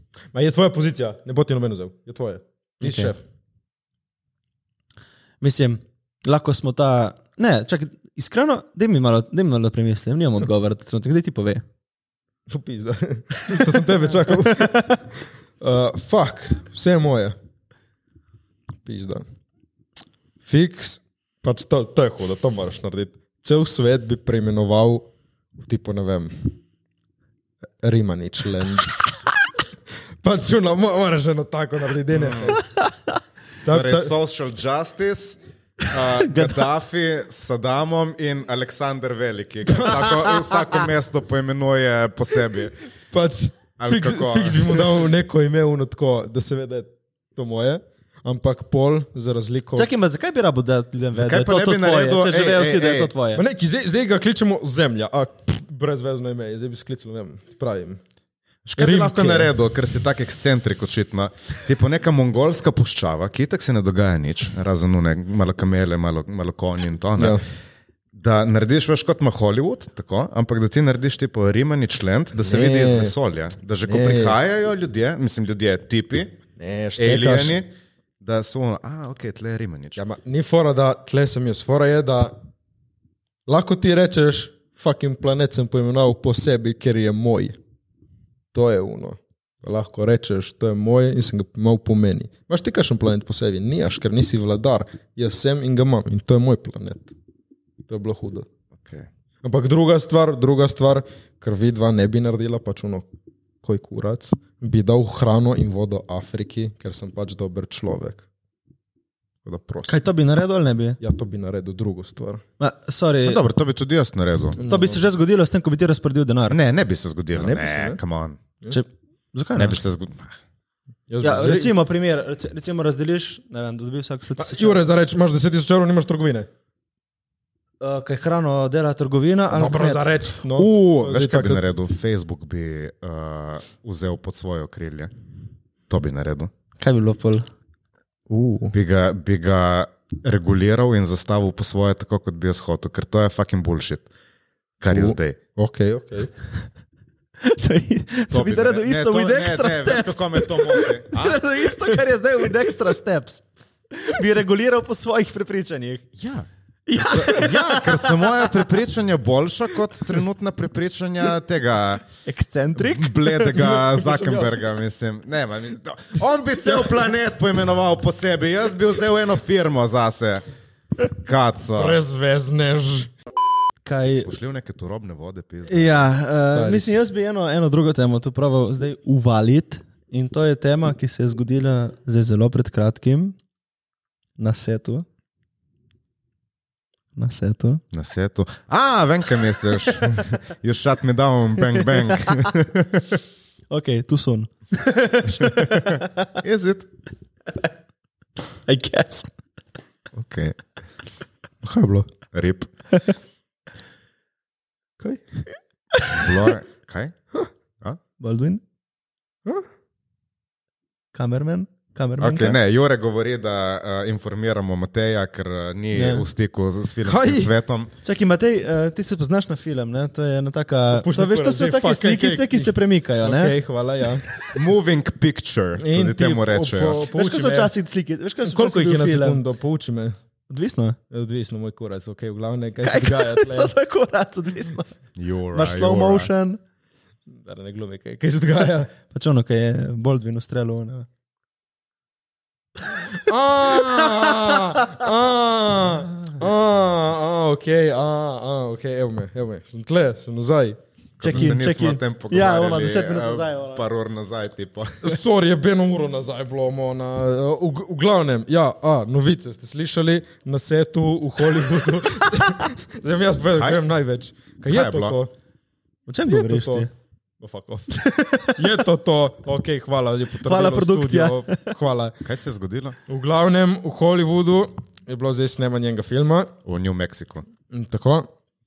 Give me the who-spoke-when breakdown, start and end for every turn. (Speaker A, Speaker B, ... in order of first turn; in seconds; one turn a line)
Speaker A: 0.3-3.2
Speaker B: 2.8-3.1
Speaker B: 5.4-11.6
Speaker A: 12.5-17.4
Speaker B: 14.3-15.0
Speaker A: 18.8-19.2
Speaker A: 20.4-26.5
Speaker A: 27.8-28.9
Speaker A: 30.2-32.6
Speaker C: 32.1-32.6
Speaker A: 33.6-34.1
Speaker C: 33.7-42.8
Speaker B: 36.1-36.6
Speaker A: 43.1-49.9
Speaker C: 43.8-44.9
Speaker B: 49.7-53.4
Speaker C: 51.1-53.1
Speaker A: 53.3-58.0
Speaker C: 58.6-67.4
Speaker A: 58.8-59.5
Speaker A: 67.2-67.4
Speaker C: 68.1-76.3
Speaker A: 72.4-73.1
Speaker A: 73.8-74.3
Speaker A: 76.6-77.5
Speaker C: 77.0-77.7
Speaker C: 78.2-80.0
Speaker A: 80.0-82.4
Speaker A: 83.5-87.6
Speaker A: 88.5-97.1
Speaker A: 97.9-98.5
Speaker C: 98.8-99.1
Speaker A: 99.4-103.1
Speaker A: 103.6-108.2
Speaker A: 109.4-110.0
Speaker B: 109.9-111.0
Speaker A: 111.0-112.4
Speaker B: 112.6-113.4
Speaker C: 113.2-114.6
Speaker A: 114.6-115.0
Speaker B: 114.6-116.6
Speaker C: 116.5-118.4
Speaker A: 117.3-118.0
Speaker B: 118.7-119.8
Speaker C: 119.5-120.3
Speaker A: 121.1-121.7
Speaker B: 121.2-124.9
Speaker A: 124.4-126.5
Speaker B: 127.8-130.2
Speaker A: 129.5-131.6
Speaker C: 130.5-135.1
Speaker C: 135.9-136.5
Speaker B: 136.8-137.4
Speaker A: 138.3-138.7
Speaker C: 138.7-144.1
Speaker C: 144.8-145.4
Speaker A: 144.9-146.3
Speaker B: 147.4-156.1
Speaker C: 148.3-151.4
Speaker C: 156.2-162.0
Speaker B: 156.9-158.7
Speaker B: 162.2-164.6
Speaker C: 162.8-170.4
Speaker C: 171.2-172.0
Speaker A: 171.7-173.1
Speaker B: 173.8-174.3
Speaker C: 174.2-176.0
Speaker B: 175.7-183.3
Speaker A: 176.4-177.0
Speaker B: 184.4-185.0
Speaker B: 187.2-187.8
Speaker C: 187.9-193.0
Speaker B: 192.1-192.5
Speaker B: 193.7-196.2
Speaker C: 195.4-196.9
Speaker B: 198.7-199.3
Speaker C: 200.2-200.6
Speaker A: 201.6-202.1
Speaker C: 202.3-202.7
Speaker C: 206.1-207.1
Speaker B: 208.2-208.6
Speaker B: 211.1-212.6
Speaker C: 212.2-217.9
Speaker B: 215.9-216.2
Speaker A: 217.0-217.5
Speaker B: 218.0-223.6
Speaker A: 220.9-224.2
Speaker C: 224.5-227.0
Speaker A: 225.8-227.7
Speaker B: 227.1-229.4
Speaker A: 228.4-230.2
Speaker B: 230.5-231.0
Speaker A: 231.1-233.7
Speaker B: 232.8-234.9
Speaker C: 235.2-236.3
Speaker B: 235.5-236.6
Speaker A: 237.3-238.9
Speaker B: 239.1-241.1
Speaker A: 243.1-251.6
Speaker B: 251.2-253.8
Speaker C: 251.2-255.2
Speaker A: 255.0-265.3
Speaker C: 263.5-263.8
Speaker C: 264.6-265.2
Speaker B: 266.1-266.9
Speaker A: 266.3-266.9
Speaker A: 267.4-272.1
Speaker B: 267.9-268.6
Speaker B: 270.4-271.7
Speaker C: 272.2-272.9
Speaker A: 273.1-276.5
Speaker C: 276.6-277.4
Speaker A: 277.7-278.3